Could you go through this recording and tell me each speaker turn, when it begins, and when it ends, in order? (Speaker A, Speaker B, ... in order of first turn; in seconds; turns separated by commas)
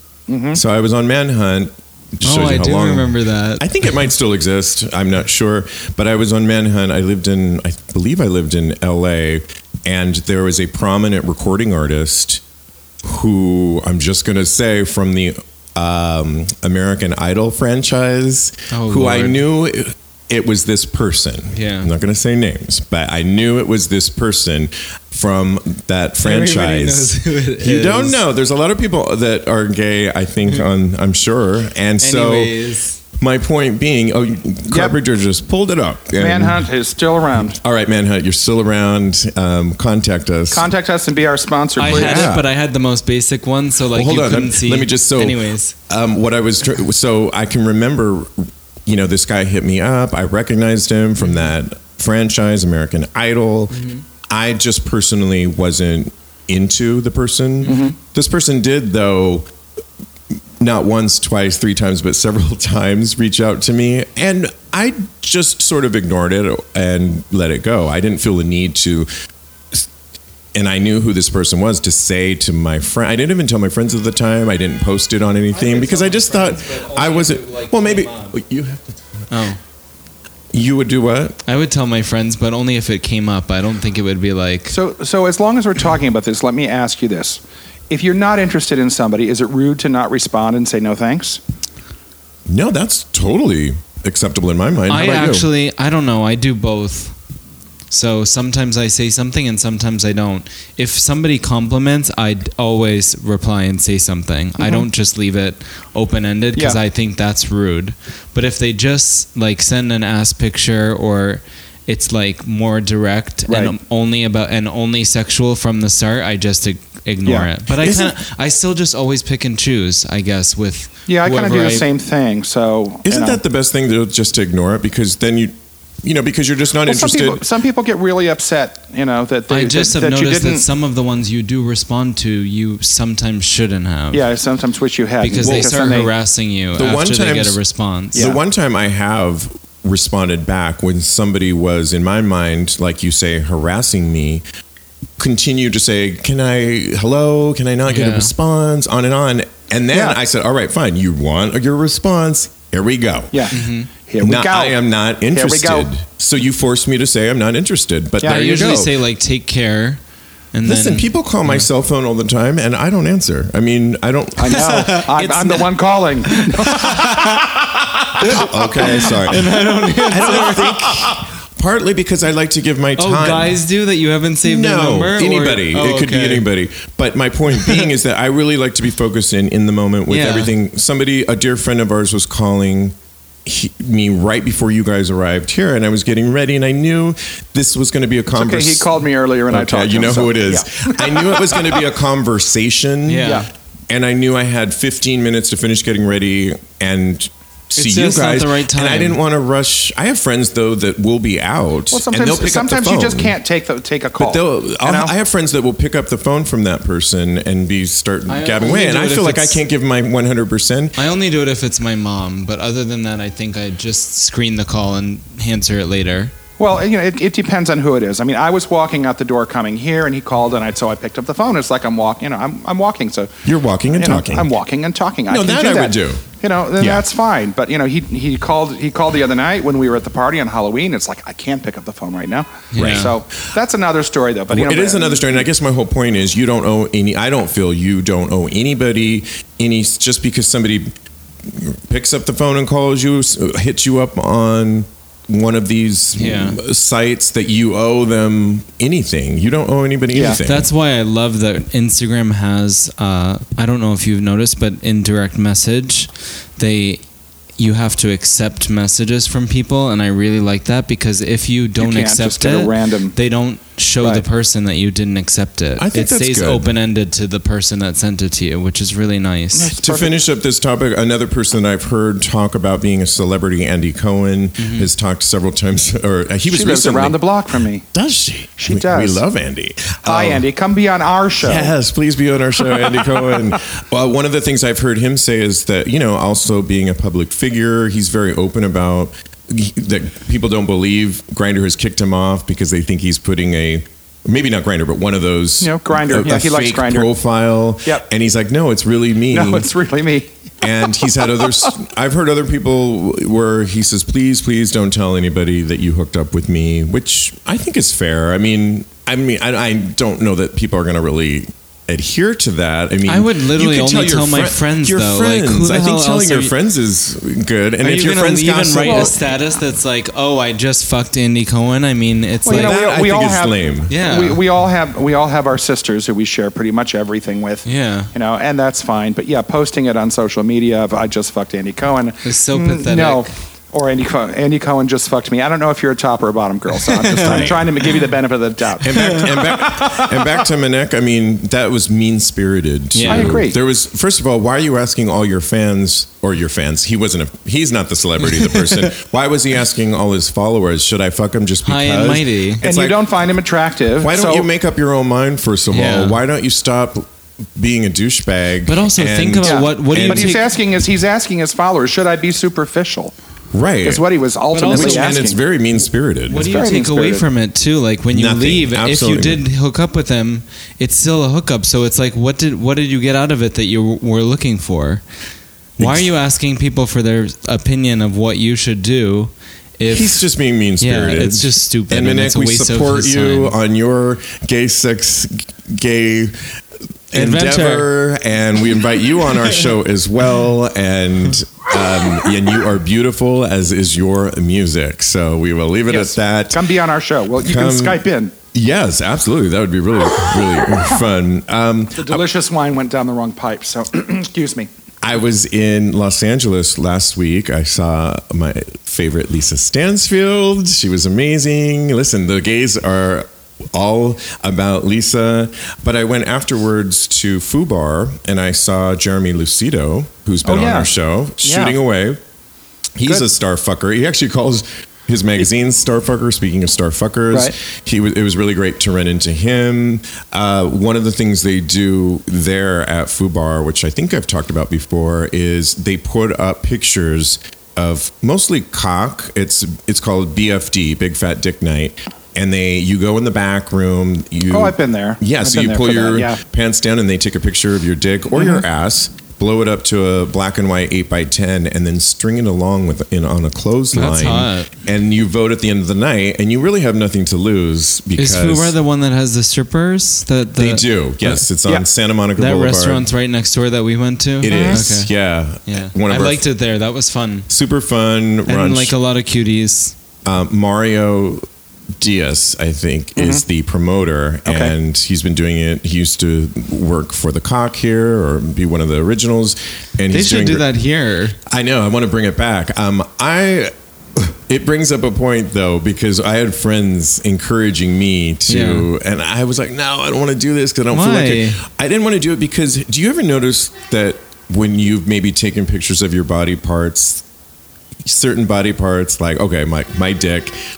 Speaker A: 0.3-0.6, Speaker B: 0.5-12.4, Speaker C: 2.2-3.9, Speaker B: 13.0-32.5, Speaker C: 18.7-19.4, Speaker C: 21.5-21.9, Speaker C: 26.2-28.2, Speaker C: 32.0-33.0, Speaker B: 33.2-36.7, Speaker A: 34.7-35.0, Speaker A: 36.2-37.6, Speaker B: 37.6-40.6, Speaker A: 40.5-42.3, Speaker C: 41.8-45.7, Speaker B: 41.8-42.5, Speaker B: 43.9-59.5, Speaker C: 51.2-51.5, Speaker C: 53.7-54.0, Speaker A: 57.6-58.0, Speaker B: 60.6-69.1, Speaker B: 70.5-79.3, Speaker C: 75.5-78.3, Speaker C: 79.3-79.6, Speaker B: 80.5-81.4, Speaker C: 81.5-84.8, Speaker A: 84.7-91.4, Speaker B: 92.5-95.5, Speaker C: 94.9-97.1, Speaker C: 97.9-121.8, Speaker A: 104.6-104.8, Speaker A: 106.5-106.8, Speaker A: 113.5-113.7, Speaker B: 117.7-118.1, Speaker A: 121.1-123.4, Speaker B: 123.0-127.4, Speaker A: 126.8-130.7, Speaker C: 129.5-134.2, Speaker A: 134.1-136.1, Speaker C: 135.2-138.3, Speaker B: 135.4-135.7, Speaker B: 136.8-137.6, Speaker A: 138.1-138.4, Speaker B: 138.1-144.4, Speaker B: 145.2-153.5, Speaker C: 147.9-148.3, Speaker A: 149.9-150.2, Speaker A: 153.3-155.9, Speaker C: 153.5-153.9, Speaker B: 154.2-158.9, Speaker C: 158.2-160.0, Speaker C: 160.5-161.7, Speaker B: 160.6-165.7, Speaker A: 164.4-167.5, Speaker C: 164.5-165.1, Speaker C: 166.2-171.2, Speaker B: 168.2-173.6, Speaker C: 173.0-176.4, Speaker B: 174.4-188.9, Speaker C: 177.5-177.9, Speaker C: 180.1-180.5, Speaker A: 188.3-191.9, Speaker B: 189.5-203.3, Speaker C: 193.1-193.4, Speaker A: 193.2-193.5, Speaker C: 197.8-199.2, Speaker A: 201.9-205.1, Speaker B: 204.2-211.0, Speaker C: 208.3-209.6, Speaker C: 211.0-216.3, Speaker A: 216.6-235.4, Speaker B: 223.4-224.5, Speaker B: 225.3-226.2, Speaker C: 232.7-233.1, Speaker B: 232.7-233.1, Speaker B: 234.5-240.9, Speaker B: 241.4-250.7, Speaker C: 246.2-246.6, Speaker A: 250.1-250.4, Speaker C: 250.4-257.0, Speaker C: 257.6-269.8, Speaker A: 261.8-263.1, Speaker A: 264.0-264.2, Speaker B: 265.8-266.7, Speaker A: 269.5-270.2, Speaker B: 269.8-277.2, Speaker C: 274.6-274.9, Speaker A: 276.5-277.9, Speaker B: 277.9-280.4, Speaker A: 278.6-279.2, Speaker A: 280.0-281.7, Speaker B: 281.4-299.7, Speaker A: 295.6-297.1, Speaker A: 299.3-300.3, Speaker B: 300.6-319.2, Speaker A: 301.0-301.7, Speaker C: 313.1-316.5, Speaker C: 317.8-322.8, Speaker A: 318.8-319.3, Speaker A: 322.4-340.3, Speaker B: 322.5-323.9, Speaker C: 323.9-324.4, Speaker C: 327.6-328.1, Speaker C: 332.2-333.3, Speaker C: 336.8-337.6, Speaker B: 337.2-337.6, Speaker B: 338.8-353.0, Speaker C: 339.0-339.3, Speaker C: 342.9-343.4, Speaker A: 343.1-343.6, Speaker C: 348.4-348.9, Speaker C: 351.6-352.6, Speaker A: 352.6-354.5, Speaker B: 354.0-360.4, Speaker C: 355.7-356.2, Speaker C: 358.7-360.5, Speaker A: 359.4-363.1, Speaker B: 363.5-364.0, Speaker A: 363.8-365.4, Speaker C: 364.5-365.2, Speaker B: 364.7-366.6, Speaker C: 366.3-375.0, Speaker A: 366.4-367.3, Speaker B: 368.1-369.4, Speaker C: 375.8-380.2, Speaker B: 375.8-376.1, Speaker B: 379.9-386.5, Speaker C: 380.8-383.5, Speaker B: 387.1-396.7, Speaker C: 387.1-387.9, Speaker A: 395.9-398.3, Speaker B: 397.4-398.0, Speaker B: 398.5-402.2, Speaker A: 401.9-404.7, Speaker B: 405.0-422.2, Speaker A: 420.4-421.8, Speaker B: 422.9-458.7, Speaker A: 444.5-446.4, Speaker A: 448.4-448.6, Speaker C: 453.9-454.7, Speaker C: 458.2-461.4, Speaker B: 460.6-463.1, Speaker C: 462.4-465.1, Speaker B: 464.4-466.4, Speaker A: 464.4-464.8, Speaker C: 465.7-467.5, Speaker B: 467.5-468.9, Speaker C: 468.5-469.9, Speaker B: 470.2-471.4, Speaker B: 472.0-480.6, Speaker A: 473.1-473.4, Speaker A: 474.4-474.7, Speaker C: 480.1-481.4, Speaker B: 481.4-497.2, Speaker C: 488.5-488.9, Speaker C: 490.9-491.6, Speaker B: 498.0-500.6